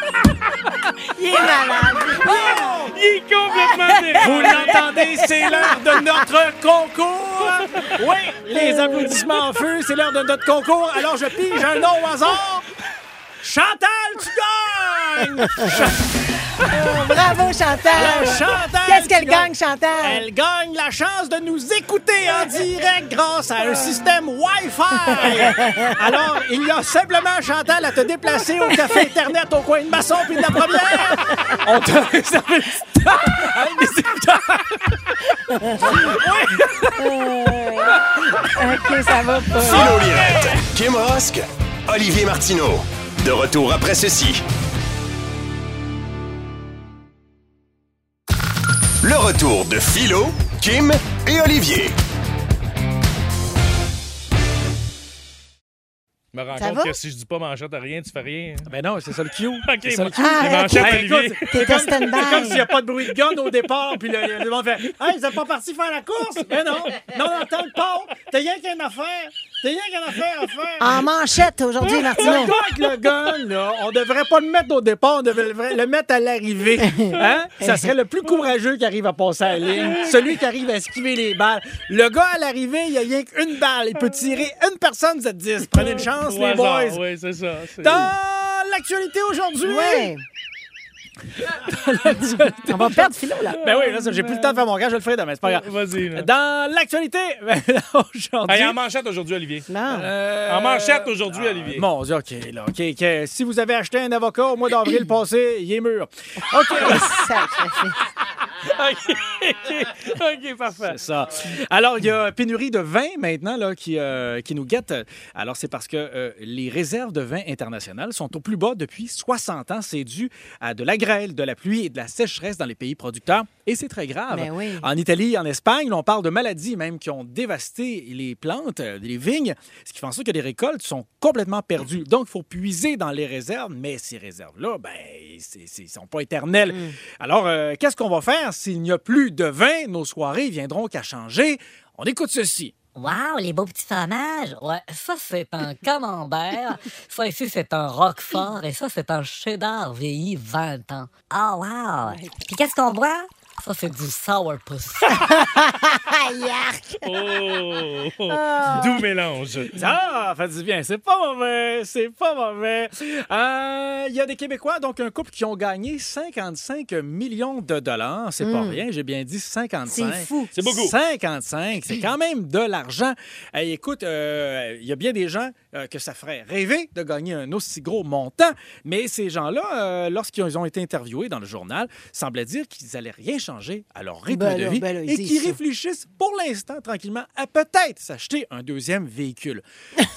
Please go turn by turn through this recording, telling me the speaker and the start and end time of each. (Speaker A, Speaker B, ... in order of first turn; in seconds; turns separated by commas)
Speaker A: 1.0-2.8, Speaker B: 2.1-3.0, Speaker C: 2.9-4.9, Speaker A: 3.5-5.8, Speaker B: 4.2-12.7, Speaker A: 8.5-9.2, Speaker B: 13.4-16.1, Speaker A: 16.6-20.2, Speaker B: 17.9-35.1, Speaker A: 25.2-25.9, Speaker A: 28.8-29.0, Speaker A: 31.2-31.6, Speaker A: 35.5-36.1, Speaker B: 35.8-37.1, Speaker A: 37.0-39.9, Speaker B: 38.1-38.7, Speaker B: 39.5-40.6, Speaker D: 39.6-44.4, Speaker D: 49.0-52.0, Speaker C: 56.3-58.7, Speaker A: 56.6-57.0, Speaker B: 58.7-71.1, Speaker C: 59.6-61.8, Speaker A: 60.2-62.6, Speaker A: 70.8-72.5, Speaker C: 72.1-72.9, Speaker B: 72.1-87.0, Speaker A: 76.8-77.9, Speaker C: 79.8-80.2, Speaker C: 86.0-88.1, Speaker B: 87.8-90.1, Speaker A: 89.7-90.2, Speaker B: 91.5-98.8, Speaker A: 92.7-93.6, Speaker C: 93.6-94.6, Speaker C: 95.5-96.3, Speaker C: 98.5-99.7, Speaker A: 99.7-100.1, Speaker B: 99.9-106.1, Speaker C: 100.4-101.9, Speaker A: 106.5-108.0, Speaker B: 106.7-107.0, Speaker C: 108.6-111.0, Speaker B: 110.8-142.7, Speaker A: 124.3-124.9, Speaker A: 136.7-137.0, Speaker E: 143.0-155.3, Speaker A: 152.1-152.4, Speaker A: 155.1-157.1, Speaker C: 157.0-159.7, Speaker A: 158.3-159.0, Speaker B: 159.7-189.6, Speaker A: 168.4-168.8, Speaker A: 169.9-170.5, Speaker C: 170.5-170.9, Speaker A: 184.3-185.6